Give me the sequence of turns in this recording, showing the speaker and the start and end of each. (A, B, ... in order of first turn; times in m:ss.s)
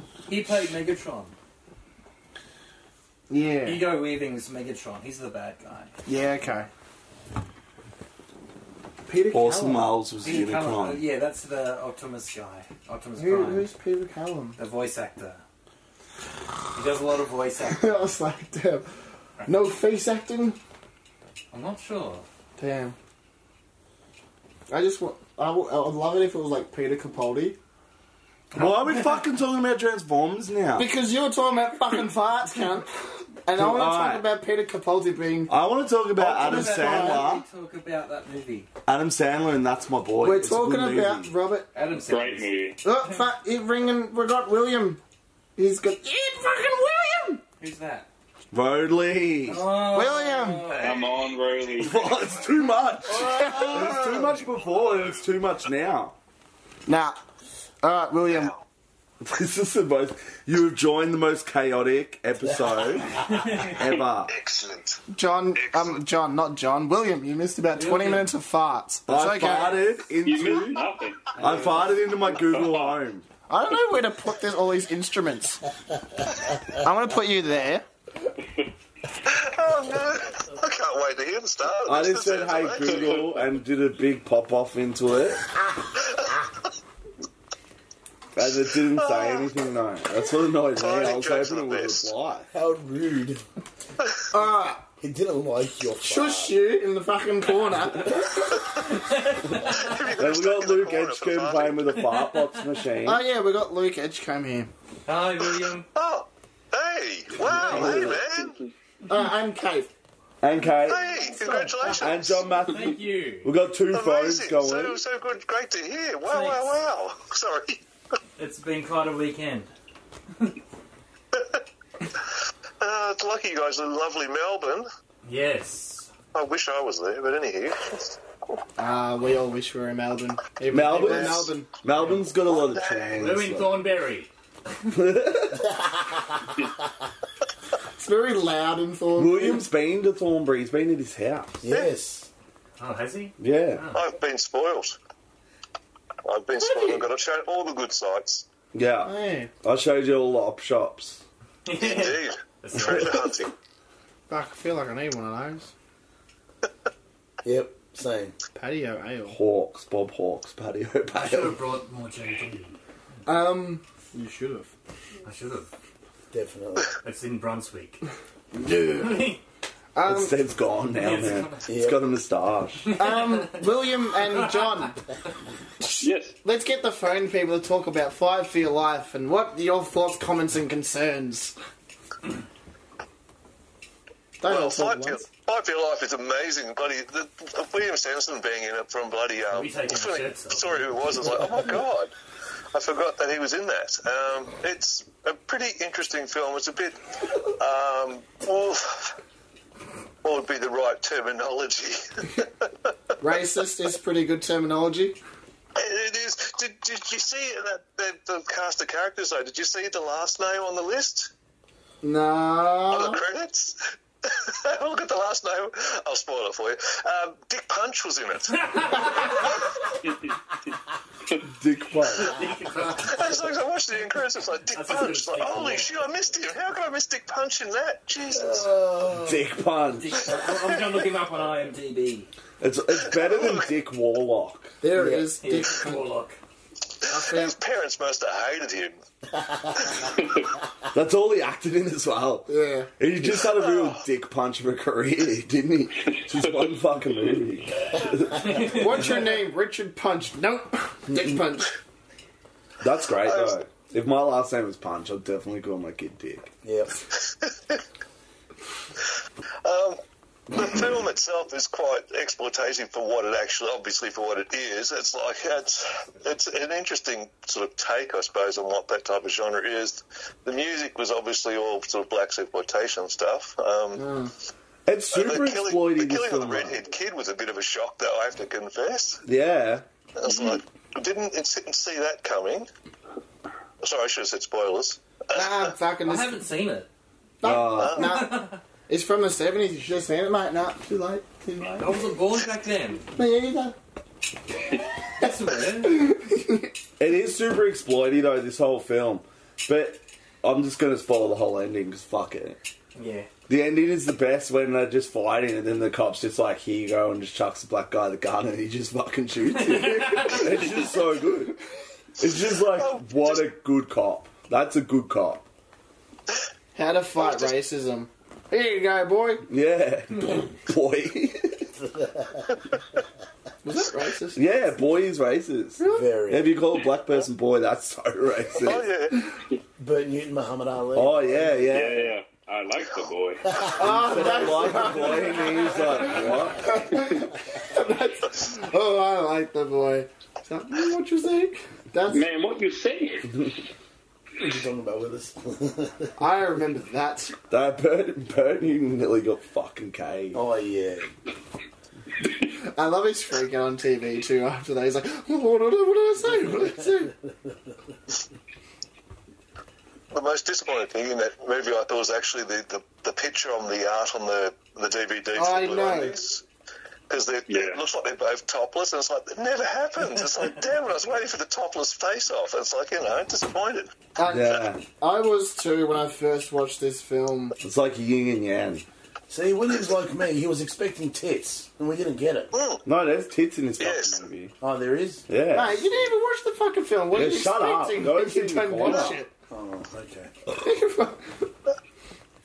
0:00.3-0:01.3 A
0:03.3-0:03.9 B
0:03.6-0:05.9 A
0:06.0-0:06.7 B
0:09.1-0:10.0 B
0:09.3-0:11.0 C
0:10.2-0:13.7 A
0:13.2-0:14.6 B
0:14.6-0:15.4 A
0:16.7-0:18.1 A
0:17.7-0:18.9 B
0:19.4-0:20.6 B
0:21.5-0:22.2 A
0:22.6-0:23.0 B
0:24.7-0:27.6 B
0:28.5-0:30.9 C
0:28.6-0:29.1 A
0:30.7-0:32.9 B
0:33.4-0:35.5 B
0:33.5-0:34.3 C
0:35.5-0:37.4 C
0:36.2-0:38.7 A
0:36.2-0:37.3 B
0:38.8-0:41.3 C
0:40.2-0:41.7 B
0:41.7-0:42.5 A
0:42.1-0:42.8 D
0:42.8-0:45.0 B
0:45.6-0:47.4 B
0:47.6-0:48.1 A
0:48.5-0:49.6 C
0:49.5-0:51.1 A
0:49.7-0:50.8 B
0:50.8-0:52.2 D
0:51.8-0:56.2 C
0:53.1-0:54.0 B
0:56.8-0:57.2 B
0:57.8-0:58.5 B
0:59.2-1:04.3 C
1:03.3-1:03.8 A
1:04.3-1:05.0 E
1:05.1-1:09.8 B
1:05.5-1:05.9 E
1:07.7-1:08.3 A
1:09.1-1:10.8 C
1:10.2-1:11.3 D
1:11.4-1:11.8 A
1:11.4-1:13.2 C
1:12.4-1:13.0 D
1:13.5-1:15.6 B
1:16.8-1:17.8 B
1:19.2-1:23.3 E
1:21.8-1:25.4 C
1:28.3-1:32.5 C
1:28.9-1:29.5 E
1:30.7-1:32.1 E
1:32.5-1:33.4 F
1:34.3-1:34.8 B
1:35.0-1:36.6 F
1:36.0-1:38.6 B
1:38.9-1:39.9 A
1:39.7-1:41.9 E
1:40.2-1:43.2 C
1:41.9-1:42.6 A
1:43.0-1:44.7 B
1:45.0-1:45.9 A
1:45.9-1:48.6 E
1:47.5-1:47.8 A
1:47.5-1:48.2 C
1:49.1-1:49.9 B
1:50.4-1:51.1 C
1:50.8-1:52.6 E
1:51.2-1:52.0 B
1:51.8-1:55.0 C
1:52.6-1:53.5 A
1:53.9-1:57.8 E
1:56.2-1:56.8 A
1:58.4-1:59.7 A
2:01.3-2:01.6 E
2:02.8-2:04.9 E
2:05.2-2:06.1 A
2:06.3-2:08.2 E
2:08.8-2:11.7 B
2:10.7-2:13.9 C
2:11.0-2:11.3 E
2:12.4-2:13.4 E
2:13.2-2:14.3 A
2:14.9-2:15.7 C
2:18.0-2:19.6 B
2:19.1-2:21.6 C
2:21.6-2:22.3 F
2:22.8-2:24.0 A
2:23.4-2:23.9 C
2:23.9-2:25.0 E
2:26.2-2:28.4 E
2:26.6-2:27.1 B
2:28.7-2:31.2 C
2:29.0-2:29.5 B
2:31.6-2:33.2 A
2:31.8-2:33.5 E
2:32.8-2:33.2 C
2:34.3-2:35.7 B
2:37.4-2:38.4 F
2:38.5-2:39.4 B
2:39.2-2:41.6 C
2:41.2-2:42.8 A
2:43.2-2:44.7 B
2:45.2-2:45.7 A
2:46.3-2:46.9 F
2:47.0-2:48.0 A
2:48.5-2:49.2 F
2:48.9-2:49.4 A
2:49.9-2:50.4 B
2:50.0-2:52.9 C
2:51.0-2:51.6 A
2:51.7-2:52.0 F
2:52.8-2:53.6 A
2:52.9-2:55.0 B
2:55.8-3:01.6 B
2:56.0-2:56.4 D
3:04.4-3:05.3 B
3:04.4-3:12.1 E
3:09.5-3:11.0 A
3:12.7-3:19.1 E
3:20.2-3:22.9 E
3:23.2-3:25.2 B
3:25.7-3:31.3 E
3:32.0-3:33.2 B
3:32.9-3:39.6 E
3:38.5-3:39.5 A
3:41.5-3:42.4 C
3:42.2-3:43.4 A
3:43.0-3:48.7 E
3:44.7-3:46.0 A
3:48.4-3:49.3 F
3:49.2-3:50.3 C
3:50.0-3:52.3 A
3:52.6-3:54.8 C
3:53.0-3:53.7 E
3:54.8-3:56.0 B
3:55.0-3:55.3 F
3:55.4-3:56.4 A
3:57.0-3:59.0 E
3:57.1-3:57.6 B
4:00.2-4:00.5 D
4:00.9-4:08.4 C
4:02.5-4:02.9 B
4:03.4-4:04.0 E
4:08.4-4:09.1 A
4:08.6-4:11.7 B
4:12.8-4:16.5 C
4:13.2-4:13.6 E
4:16.6-4:17.0 F
4:17.3-4:17.8 E
4:19.6-4:20.0 E
4:20.5-4:34.0 E
4:34.0-4:34.3 B
4:34.8-4:36.8 C
4:35.1-4:39.2 E
4:39.2-4:39.8 C
4:40.2-4:42.7 E
4:43.8-4:45.7 E
4:45.3-4:46.5 B
4:46.0-4:46.9 A
4:47.4-4:52.1 B
4:47.4-4:48.0 C
4:48.0-4:48.6 A
4:51.8-4:53.1 A
4:53.1-4:53.8 B
4:55.2-4:56.0 A
4:55.2-4:56.7 B
4:57.0-5:02.6 C
5:03.0-5:03.3 A
5:03.5-5:11.6 C
5:09.5-5:10.5 A
5:12.2-5:15.4 C
5:12.6-5:13.5 E
5:16.7-5:19.4 B
5:17.2-5:17.5 E
5:19.5-5:21.7 C
5:21.8-5:22.4 F
5:23.6-5:24.4 B
5:24.3-5:28.9 C
5:25.8-5:26.1 B
5:25.8-5:26.5 F
5:28.6-5:29.3 E
5:29.8-5:31.8 F
5:30.9-5:32.1 C
5:31.7-5:33.6 D
5:33.8-5:42.2 B
5:33.8-5:36.7 C
5:42.1-5:43.5 D
5:44.4-5:46.1 F
5:46.2-5:47.4 B
5:47.5-5:50.4 C
5:50.3-5:51.1 F
5:52.7-5:57.1 B
6:00.1-6:06.4 E
6:05.3-6:06.2 B
6:07.1-6:13.9 E
6:07.5-6:07.8 D
6:14.2-6:17.6 B
6:14.2-6:14.8 C
6:17.6-6:18.8 C
6:19.3-6:22.5 F
6:22.5-6:22.8 E
6:22.8-6:24.5 C
6:23.8-6:24.2 E
6:24.6-6:25.3 F
6:25.3-6:25.8 C
6:25.5-6:29.3 B
6:27.1-6:29.2 C
6:29.5-6:30.3 F
6:30.5-6:31.5 B